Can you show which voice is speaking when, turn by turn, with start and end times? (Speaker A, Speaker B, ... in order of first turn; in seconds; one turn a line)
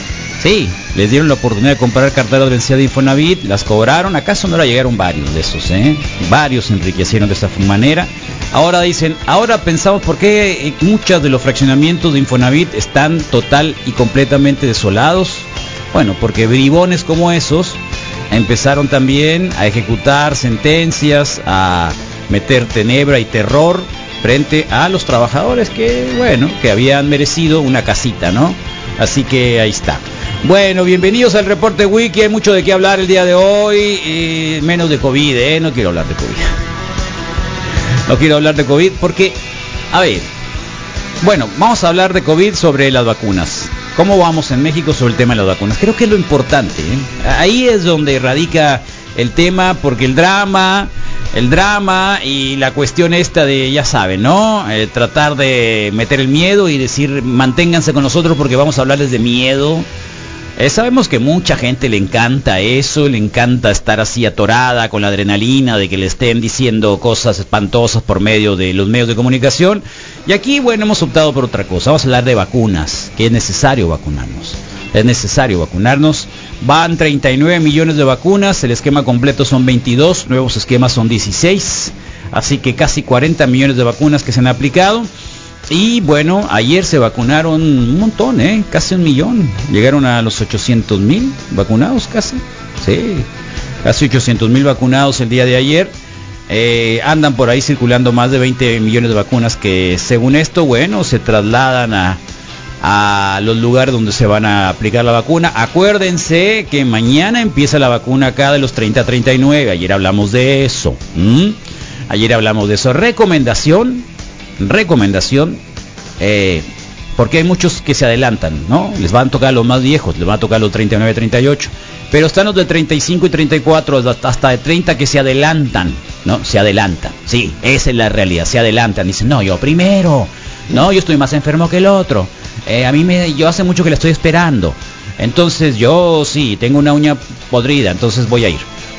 Speaker A: 0.4-17.8
Speaker A: 18.3-36.5
Speaker A: 38.1-39.4
Speaker A: 39.9-40.3
Speaker A: 41.2-59.9
Speaker A: 60.6-85.1
Speaker A: 85.7-93.2
Speaker A: 93.8-95.9
Speaker A: 96.5-102.2
Speaker A: 102.8-111.6
Speaker A: 112.1-114.0
Speaker A: 114.6-115.6
Speaker A: 116.2-116.6
Speaker A: 117.2-138.6